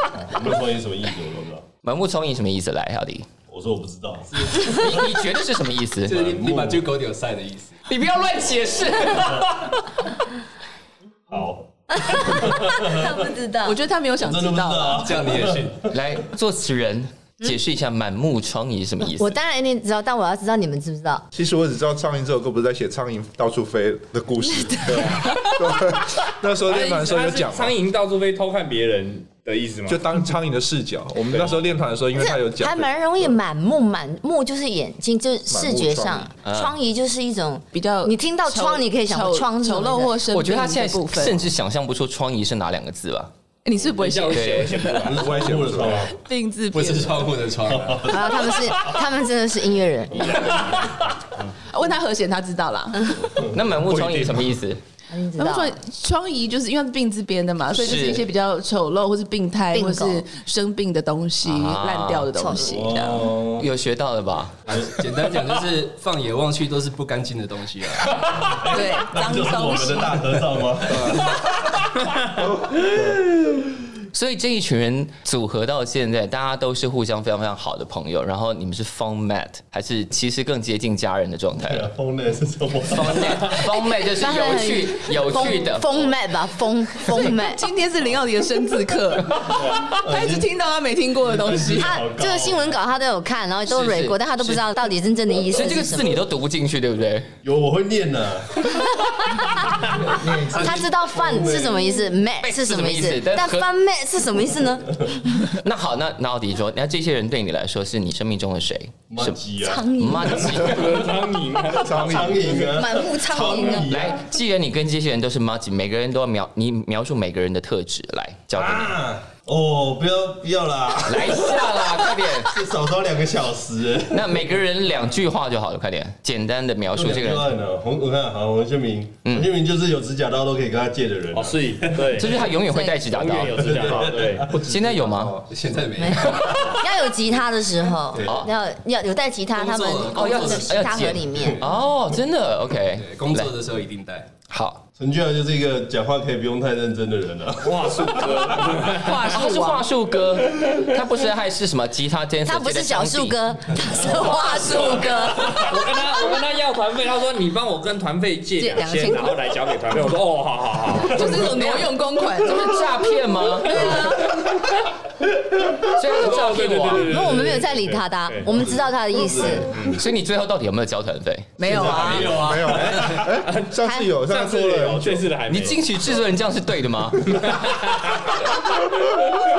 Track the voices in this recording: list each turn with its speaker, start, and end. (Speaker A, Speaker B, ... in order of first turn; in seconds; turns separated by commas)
Speaker A: 0.1-1.6, Speaker B: 1.8-3.3, Speaker A: 3.5-4.5, Speaker C: 4.3-5.0, Speaker B: 4.5-6.2, Speaker C: 6.0-7.8, Speaker A: 6.2-6.9, Speaker B: 7.9-9.8, Speaker A: 9.0-9.4, Speaker A: 11.3-11.7, Speaker D: 11.9-13.8, Speaker A: 12.2-13.1, Speaker E: 13.6-15.1, Speaker A: 14.2-15.8, Speaker C: 15.0-15.8, Speaker B: 15.9-19.3, Speaker D: 19.0-21.2, Speaker F: 21.3-27.7, Speaker G: 24.9-25.2, Speaker G: 26.6-30.0, Speaker F: 29.9-33.3, Speaker G: 31.3-31.6, Speaker D: 32.2-40.2, Speaker F: 35.5-36.3, Speaker B: 36.4-36.7, Speaker E: 37.7-41.5, Speaker B: 40.3-43.3, Speaker E: 43.6-45.0, Speaker G: 44.0-45.3, Speaker B: 44.3-44.8, Speaker A: 45.0-46.1, Speaker F: 45.1-46.1, Speaker E: 46.1-47.4, Speaker C: 46.7-48.1, Speaker A: 47.6-48.2, Speaker D: 48.0-50.7, Speaker G: 50.5-51.0, Speaker E: 51.6-53.2, Speaker B: 53.5-54.8, Speaker F: 53.8-54.6, Speaker D: 55.1-55.8, Speaker E: 55.4-63.3, Speaker B: 57.7-58.3, Speaker D: 59.7-60.2, Speaker B: 61.4-62.3, Speaker D: 62.3-63.0, Speaker A: 62.6-63.7, Speaker B: 63.6-64.6, Speaker A: 64.7-64.9, Speaker C: 64.7-68.4, Speaker A: 68.6-71.3, Speaker E: 68.7-70.3, Speaker F: 70.9-71.3, Speaker F: 72.3-73.2, Speaker B: 74.1-81.9, Speaker A: 81.6-83.6, Speaker B: 82.9-86.1, Speaker D: 83.8-87.6, Speaker E: 87.1-91.9, Speaker G: 89.5-89.9, Speaker A: 89.9-90.5, Speaker A: 91.3-92.7, Speaker D: 91.8-96.2, Speaker B: 93.7-94.6, Speaker B: 95.5-97.3, Speaker A: 97.4-98.7, Speaker D: 98.9-99.8, Speaker A: 100.1-101.9, Speaker F: 100.2-100.7, Speaker D: 100.4-105.0, Speaker B: 102.4-103.6, Speaker B: 105.3-109.4, Speaker A: 109.1-109.8, Speaker D: 109.6-110.7, Speaker B: 109.9-111.0, Speaker G: 110.6-112.7, Speaker A: 111.7-114.3, Speaker F: 111.7-112.6, Speaker D: 112.7-113.9, Speaker B: 113.9-119.0, Speaker A: 118.5-121.7, Speaker B: 121.0-122.6, Speaker A: 122.4-124.4, Speaker B: 124.1-127.5, Speaker A: 126.9-132.2, Speaker B: 129.2-129.5, Speaker G: 131.3-134.5, Speaker B: 132.1-133.8, Speaker A: 133.4-134.7, Speaker B: 134.5-135.4, Speaker F: 134.7-135.3, Speaker C: 135.5-136.8, Speaker D: 136.0-141.6, Speaker A: 138.1-138.4, Speaker C: 139.5-141.2, Speaker B: 140.1-143.5, Speaker C: 142.9-144.3, Speaker B: 144.5-144.8, Speaker A: 145.0-148.8, Speaker G: 147.6-149.3, Speaker E: 148.9-149.8, Speaker B: 149.3-153.4, Speaker D: 152.4-155.7, Speaker E: 154.4-155.0, Speaker G: 155.3-161.6, Speaker E: 158.6-159.4, Speaker E: 160.9-162.8, Speaker B: 161.2-164.0, Speaker E: 163.6-164.5, Speaker G: 163.8-164.8, Speaker B: 165.9-167.4, Speaker G: 166.2-168.5, Speaker D: 166.8-169.7, Speaker A: 169.1-170.0, Speaker G: 169.7-170.0, Speaker B: 170.0-171.6, Speaker E: 171.6-172.4, Speaker A: 171.7-172.9, Speaker C: 171.7-173.2, Speaker F: 171.8-175.3, Speaker G: 172.8-175.8, Speaker B: 175.5-177.5, Speaker G: 177.3-178.4